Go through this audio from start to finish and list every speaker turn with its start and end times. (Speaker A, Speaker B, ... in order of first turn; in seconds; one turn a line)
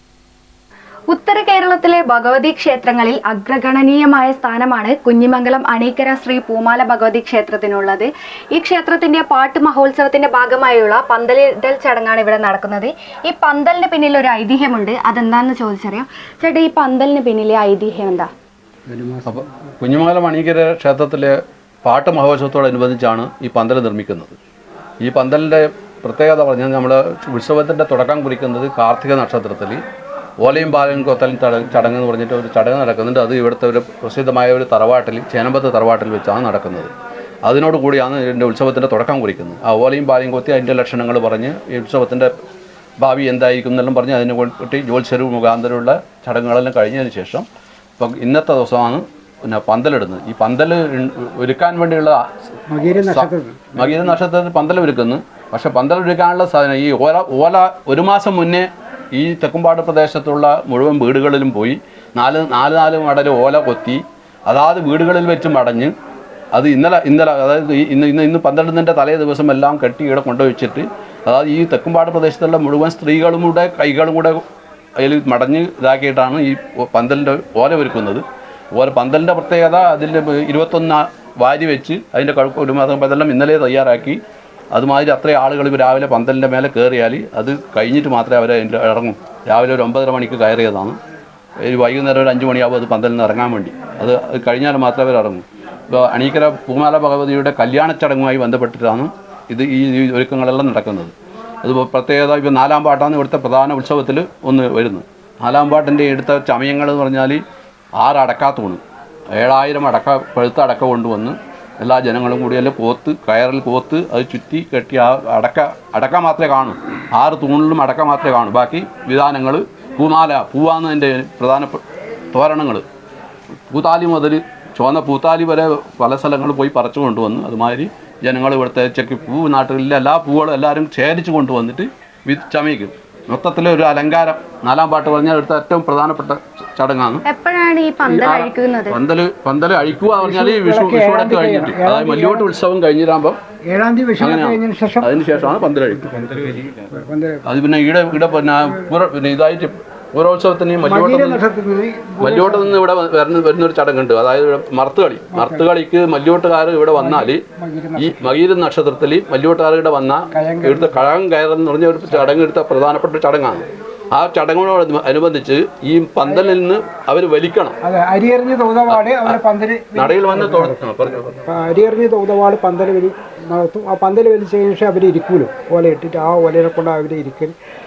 Speaker A: 1.1-18.3
Speaker B: 18.9-19.5
Speaker C: 19.3-24.4
Speaker C: 25.0-29.8
Speaker C: 30.4-36.9
Speaker C: 37.5-42.3
Speaker C: 43.0-47.5
Speaker C: 48.0-52.2
Speaker B: 52.7-54.2
Speaker C: 53.0-65.9
Speaker C: 66.5-74.4
Speaker C: 75.0-78.2
Speaker C: 78.7-84.2
Speaker C: 84.7-91.0
Speaker C: 91.6-107.4
Speaker C: 108.0-108.8
Speaker C: 109.3-122.8
Speaker C: 123.7-137.2
Speaker A: 137.3-139.0
Speaker C: 138.1-143.4
Speaker B: 140.2-142.5
Speaker B: 143.7-147.5
Speaker C: 144.2-146.1
Speaker C: 147.5-151.4
Speaker B: 148.5-148.9
Speaker B: 150.8-152.8
Speaker C: 152.2-157.4
Speaker B: 155.3-155.7
Speaker B: 156.9-158.3
Speaker C: 158.0-167.8
Speaker B: 160.3-161.1
Speaker B: 166.2-166.6
Speaker B: 167.8-177.5
Speaker C: 168.9-169.4
Speaker C: 169.9-171.4